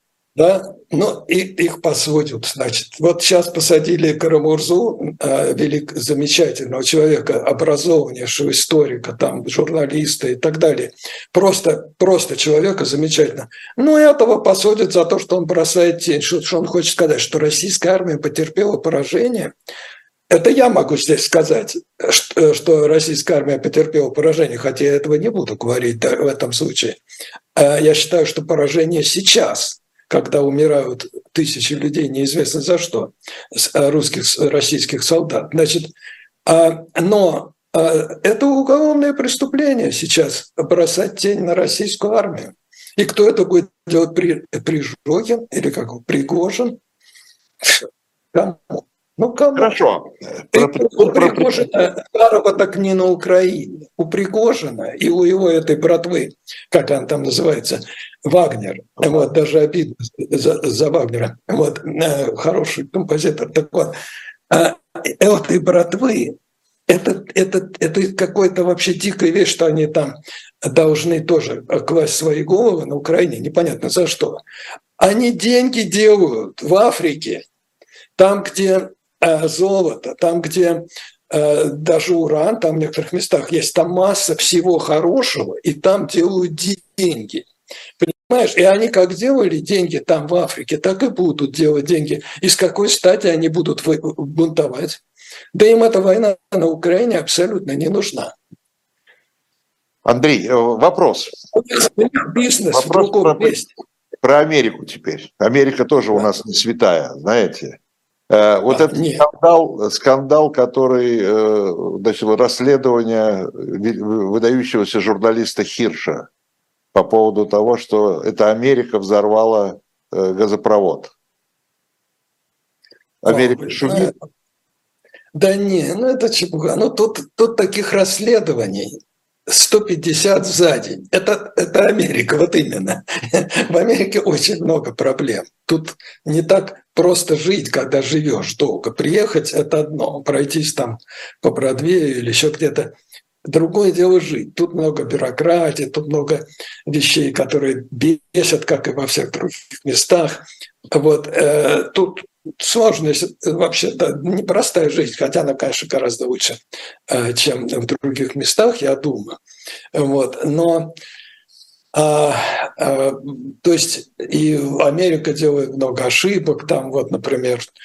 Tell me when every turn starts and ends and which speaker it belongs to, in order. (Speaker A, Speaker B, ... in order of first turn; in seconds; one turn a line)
Speaker A: 0.3-19.5
Speaker A: 20.3-27.0
Speaker A: 27.6-35.9
Speaker A: 36.5-46.8
Speaker A: 48.3-49.8
Speaker B: 49.5-51.6
Speaker A: 50.5-64.0
Speaker A: 64.5-66.4
Speaker A: 66.9-74.4
Speaker A: 75.0-77.5
Speaker A: 78.2-87.5
Speaker A: 88.0-95.0
Speaker A: 95.5-98.3
Speaker B: 100.0-101.4
Speaker A: 101.5-103.7
Speaker B: 102.7-103.6
Speaker B: 104.2-107.8
Speaker B: 108.3-116.3
Speaker A: 108.7-109.2
Speaker B: 116.9-121.1
Speaker B: 123.2-124.1
Speaker A: 123.3-124.1
Speaker A: 125.3-142.9
Speaker A: 143.4-159.4
Speaker A: 159.9-160.9
Speaker A: 161.9-167.7